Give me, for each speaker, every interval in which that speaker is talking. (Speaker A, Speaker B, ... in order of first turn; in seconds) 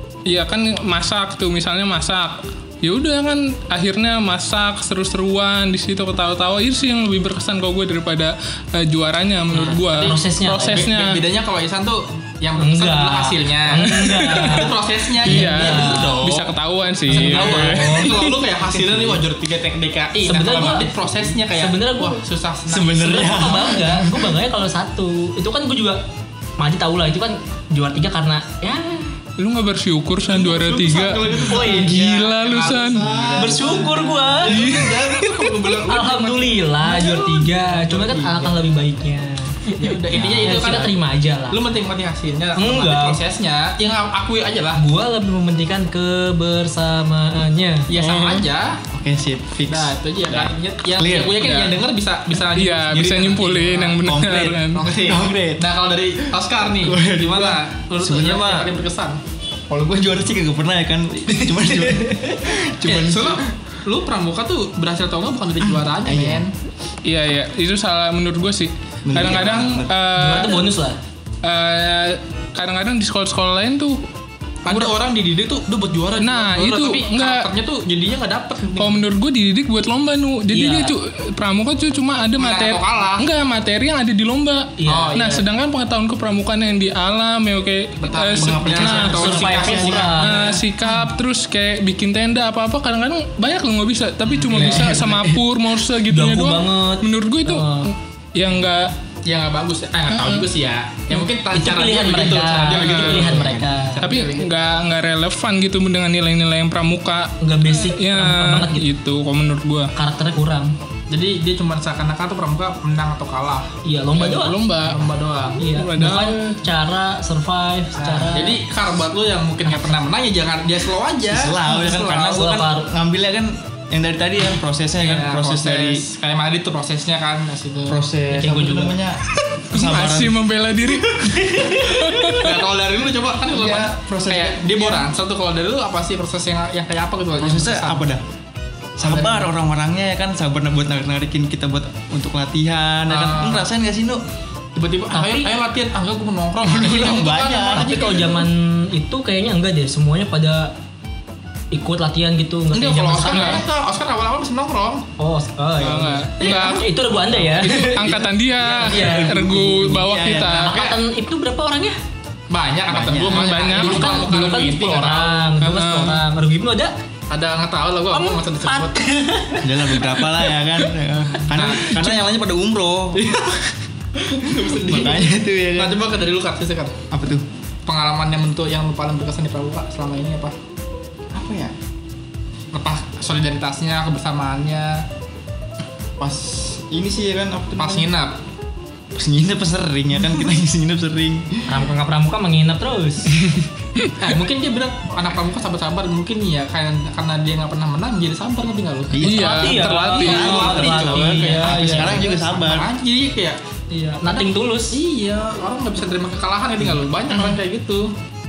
Speaker A: 0.3-11.2, 13.8-14.7, 15.3-18.4, 29.4-33.1, 34.5-34.9, 51.4-51.8, 52.5-54.8, 67.0-70.7, 71.4-74.0, 74.7-75.0, 76.2-77.5, 78.8-89.3, 90.1-98.9, 100.1-100.5, 102.7-103.3, 104.0-109.9, 114.2-115.0, 115.7-116.6, 129.7-132.6, 153.2-153.6, 155.8-156.9, 157.5-160.7, 163.3-164.4, 165.6-166.2, 199.2-200.8
Speaker B: 9.5-10.9, 12.6-14.7, 15.2-16.2, 17.1-18.2, 20.2-20.9, 21.5-22.2, 23.0-26.0, 26.6-29.1, 31.4-32.1, 33.4-35.3, 35.9-39.6, 40.4-41.6, 42.5-43.2, 44.8-47.9, 61.3-62.2, 70.1-71.0, 80.5-80.9, 84.8-85.4, 88.8-90.5, 94.5-95.4, 96.1-97.9, 101.5-104.0, 107.4-108.8, 109.9-110.7, 113.8-114.6, 115.6-118.6, 119.6-120.0, 122.4-122.9, 128.3-129.0, 131.2-132.1, 139.1-139.3, 145.1-145.5, 147.8-150.7, 151.7-153.6, 155.2-158.2, 158.8-162.0, 163.7-166.9, 168.1-170.9, 191.7-193.4, 199.2-202.3, 203.9-205.0
Speaker C: 9.6-16.6, 17.1-23.8, 30.2-38.6, 39.8-40.9, 41.5-44.8, 47.9-48.8, 49.7-54.0, 54.7-59.2, 62.9-66.5, 74.6-79.0, 82.4-83.3, 84.9-85.2, 88.0-90.6, 94.2-94.9, 99.2-104.6, 111.1-113.7, 114.8-115.6, 118.0-122.4, 125.0-128.0, 132.4-138.1, 143.1-143.7, 144.8-148.5, 152.7-155.0, 156.4-156.8, 160.7-161.0, 162.5-165.5, 167.3-168.9, 171.5-172.2, 174.3-176.9, 177.9-180.6, 182.7-185.0, 187.8-188.4, 194.2-203.6, 204.3-208.1
Speaker D: 22.7-24.4, 32.8-34.5, 40.1-40.8, 48.9-51.4, 54.0-55.6, 56.8-58.8, 59.7-63.4, 65.7-66.5, 69.0-69.9, 88.3-90.1, 121.3-126.1, 127.9-130.4, 133.5-135.1, 137.4-138.2, 139.0-144.2, 146.6-148.2, 157.9-160.7, 162.9-163.5, 169.6-173.2, 174.7-176.0, 177.1-177.4, 181.3-181.7, 186.2-188.1, 189.1-191.8, 199.1-202.9